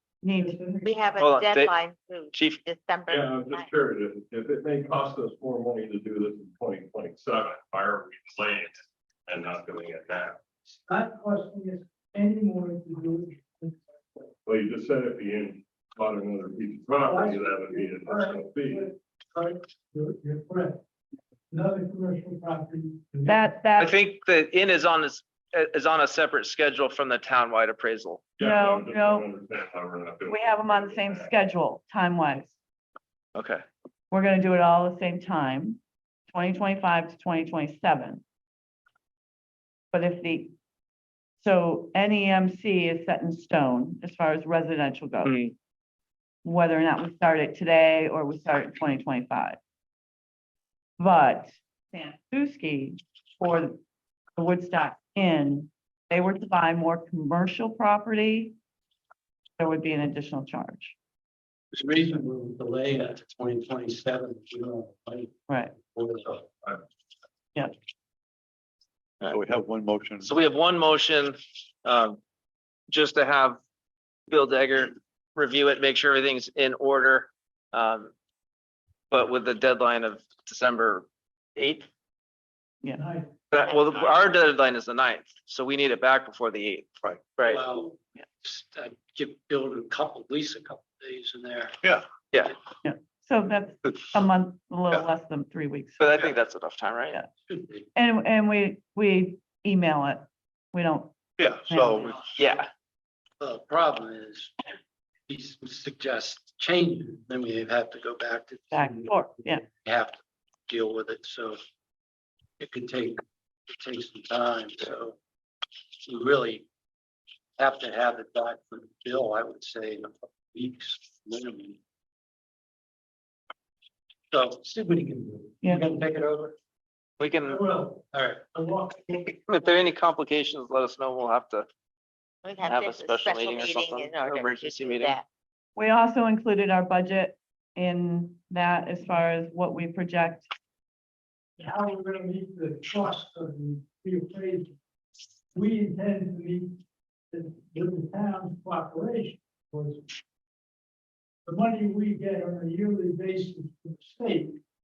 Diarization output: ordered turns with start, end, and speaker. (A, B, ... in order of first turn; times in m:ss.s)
0:00.2-0:00.7 A
0:00.3-0:01.2 B
0:00.8-0:03.6 C
0:01.2-0:01.8 D
0:02.3-0:02.6 D
0:03.1-0:10.4 E
0:10.7-0:14.3 B
0:14.4-0:18.8 E
0:17.0-0:20.8 B
0:21.5-0:23.5 B
0:23.2-0:23.9 A
0:23.8-0:28.3 D
0:28.4-0:31.3 E
0:28.4-0:29.3 A
0:30.3-0:32.5 A
0:33.3-0:33.6 D
0:34.1-0:38.2 A
0:39.9-0:40.5 A
0:41.4-0:45.3 A
0:45.2-0:45.5 D
0:46.4-0:49.6 A
0:51.0-0:53.8 A
0:54.4-0:58.5 A
0:59.6-1:00.9 A
1:01.7-1:05.3 F
1:05.5-1:05.8 A
1:05.8-1:06.8 F
1:09.2-1:10.3 G
1:10.2-1:12.2 D
1:12.9-1:13.6 D
1:14.3-1:18.1 D
1:19.1-1:21.9 D
1:22.9-1:23.3 B
1:23.5-1:26.8 D
1:27.4-1:27.6 D
1:27.4-1:31.8 F
1:32.8-1:36.1 A
1:33.8-1:34.2 G
1:36.0-1:37.2 D
1:37.5-1:37.9 F
1:37.9-1:41.2 A
1:41.4-1:42.3 G
1:41.7-1:42.1 A
1:42.4-1:42.7 D
1:43.4-1:44.5 F
1:45.3-1:51.6 F
1:48.7-1:49.6 A
1:52.6-1:55.2 F
1:56.0-1:56.6 F
1:57.6-2:01.8 F
2:04.3-2:06.6 F
2:07.2-2:07.6 D
2:07.4-2:09.4 B
2:08.1-2:08.5 F
2:09.4-2:11.7 D
2:12.4-2:15.2 C
2:12.6-2:15.2 D
2:15.8-2:20.5 A
2:21.6-2:24.8 B
2:25.5-2:30.1 B
2:31.4-2:34.6 B